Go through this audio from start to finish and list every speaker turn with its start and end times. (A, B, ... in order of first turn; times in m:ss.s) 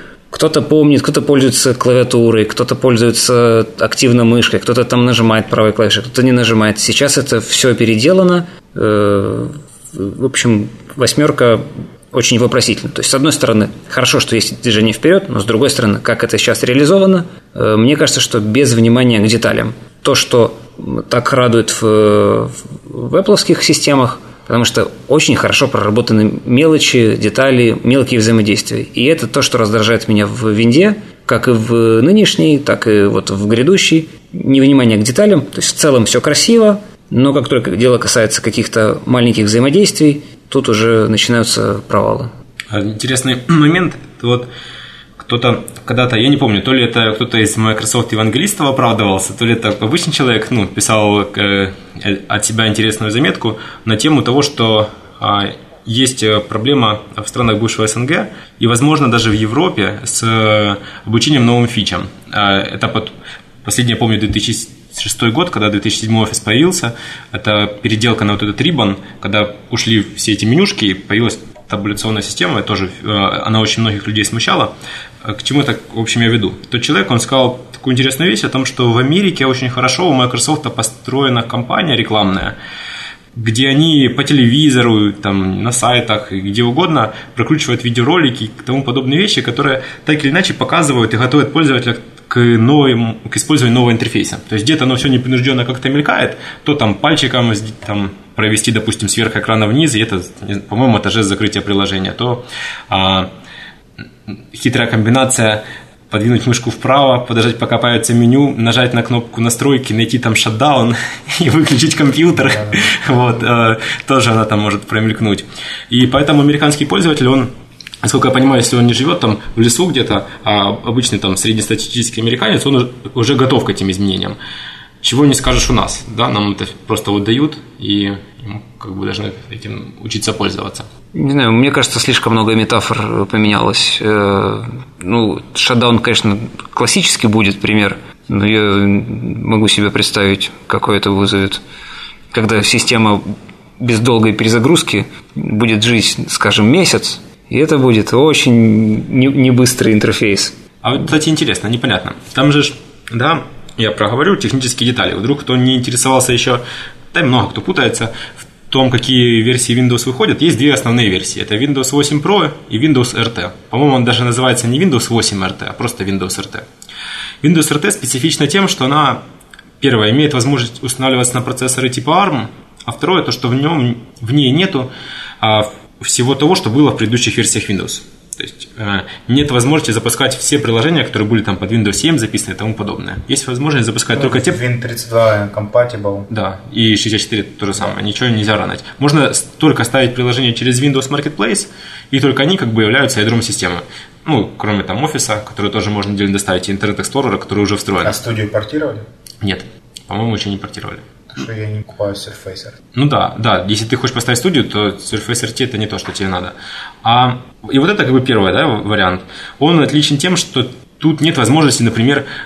0:00.3-0:42.3 A
0:42.7-0:44.5 B
0:45.2-1:22.6 B
1:23.3-1:43.3 B
1:44.3-1:57.5 B
1:52.4-1:53.3 C
1:58.0-2:04.4 B
2:05.0-2:10.9 B
2:11.1-2:21.6 A
2:22.3-2:30.6 A
2:30.8-2:46.6 B
2:47.4-2:49.2 B
2:49.8-3:04.6 B
3:04.1-3:06.3 C
3:06.3-3:18.2 B
3:18.0-3:19.1 C
3:19.4-3:21.0 B
3:21.3-3:22.8 C
3:22.9-3:32.3 B